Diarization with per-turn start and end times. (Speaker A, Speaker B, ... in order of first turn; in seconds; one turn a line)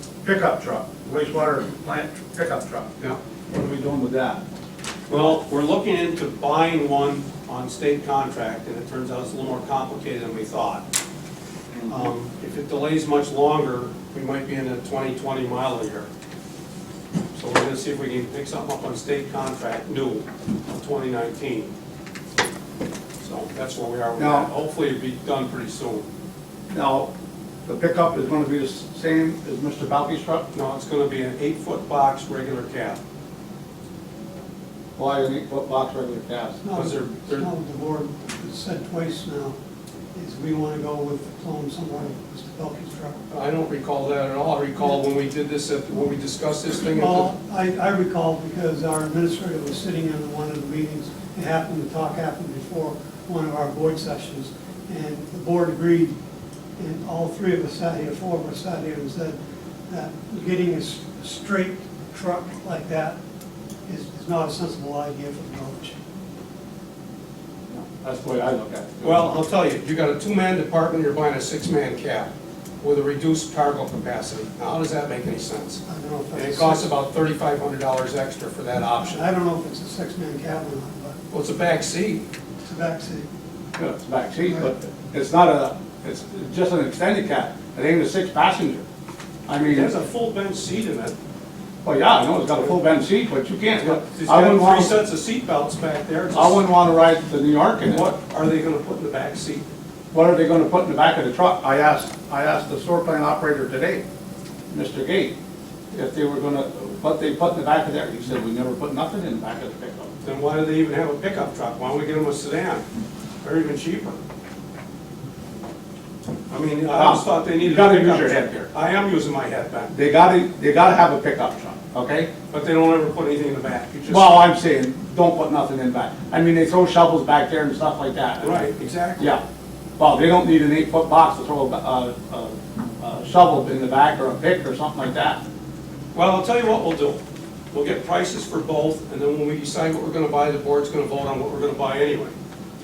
Speaker A: 0.2-2.9
Speaker A: 3.5-4.4
Speaker B: 5.1-10.8
Speaker B: 11.9-16.1
Speaker B: 17.3-21.7
Speaker B: 23.2-26.1
Speaker A: 24.2-24.5
Speaker A: 26.7-27.1
Speaker A: 27.6-30.4
Speaker B: 30.5-33.0
Speaker A: 35.0-36.6
Speaker C: 36.6-39.5
Speaker B: 36.7-37.5
Speaker C: 40.1-43.2
Speaker B: 43.3-47.3
Speaker C: 46.9-56.1
Speaker C: 56.8-59.4
Speaker C: 59.9-63.2
Speaker C: 63.9-66.0
Speaker A: 67.7-69.3
Speaker B: 69.0-72.3
Speaker B: 72.8-79.2
Speaker C: 75.9-76.9
Speaker C: 79.0-81.2
Speaker B: 81.3-82.2
Speaker C: 82.6-83.3
Speaker A: 83.8-88.8
Speaker A: 89.5-89.9
Speaker B: 89.6-91.2
Speaker A: 91.8-94.9
Speaker B: 93.8-96.6
Speaker A: 96.3-98.1
Speaker B: 97.8-99.7
Speaker A: 100.1-104.0
Speaker A: 104.7-105.3
Speaker A: 105.9-110.1
Speaker B: 110.2-112.8
Speaker B: 113.4-114.2
Speaker B: 116.5-119.9
Speaker A: 116.9-118.7
Speaker A: 119.9-122.3
Speaker B: 122.5-124.5
Speaker A: 124.1-128.7
Speaker B: 128.4-129.3
Speaker A: 130.0-135.4
Speaker B: 136.1-137.2
Speaker B: 137.7-142.3